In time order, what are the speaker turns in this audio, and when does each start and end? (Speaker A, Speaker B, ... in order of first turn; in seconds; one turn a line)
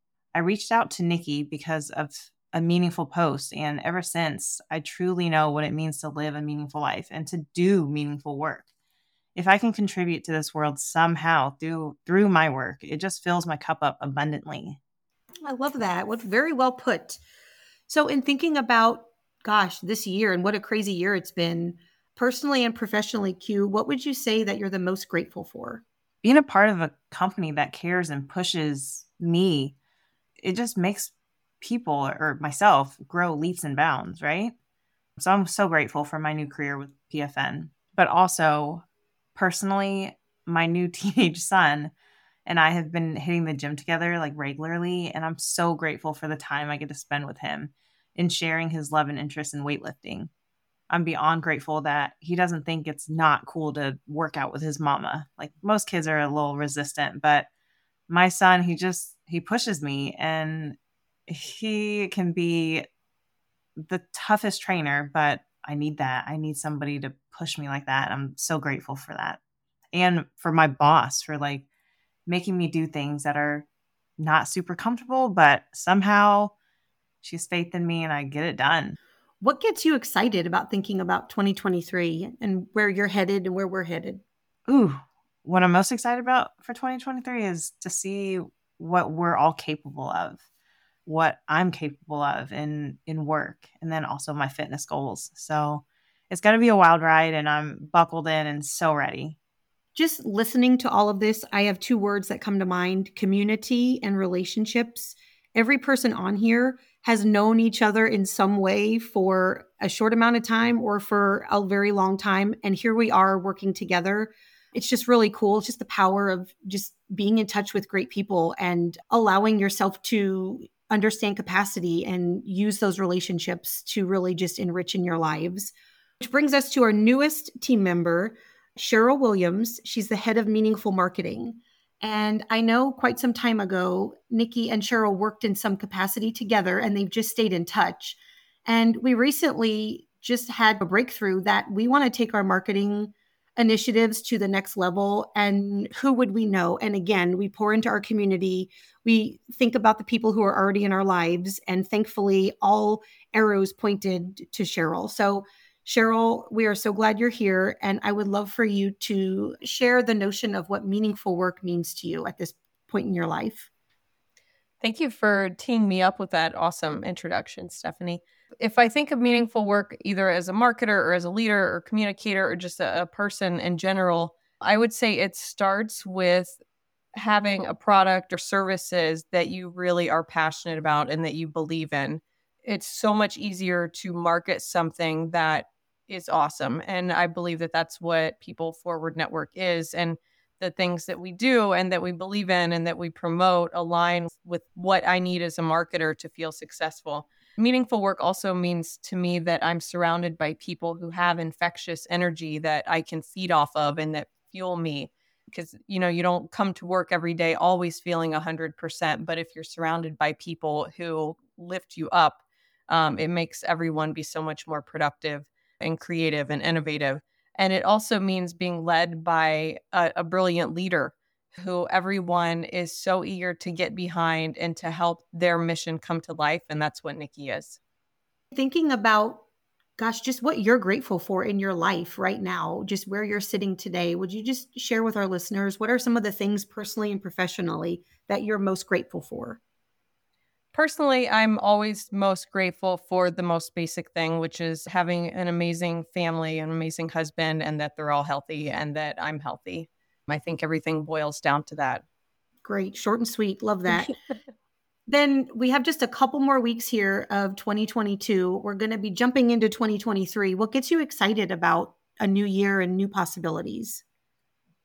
Speaker A: 0.3-8.7
Speaker A: 9.3-14.8
Speaker B: 15.4-17.2
Speaker B: 17.9-25.8
Speaker A: 26.2-29.7
Speaker A: 30.4-34.5
Speaker A: 35.2-41.9
Speaker A: 42.5-50.3
Speaker A: 50.9-57.5
Speaker A: 58.1-62.9
Speaker A: 63.8-69.4
Speaker A: 69.9-71.6
Speaker A: 72.3-73.7
Speaker A: 74.2-76.5
Speaker A: 77.2-79.0
Speaker B: 79.4-84.2
Speaker A: 84.7-90.4
Speaker A: 91.0-99.4
Speaker B: 99.9-163.7
Speaker C: 164.8-176.6
Speaker C: 177.1-227.8
Speaker B: 228.5-229.4
Speaker B: 230.0-239.6
Speaker C: 240.7-252.0
Speaker B: 252.6-254.1
Speaker B: 255.1-264.0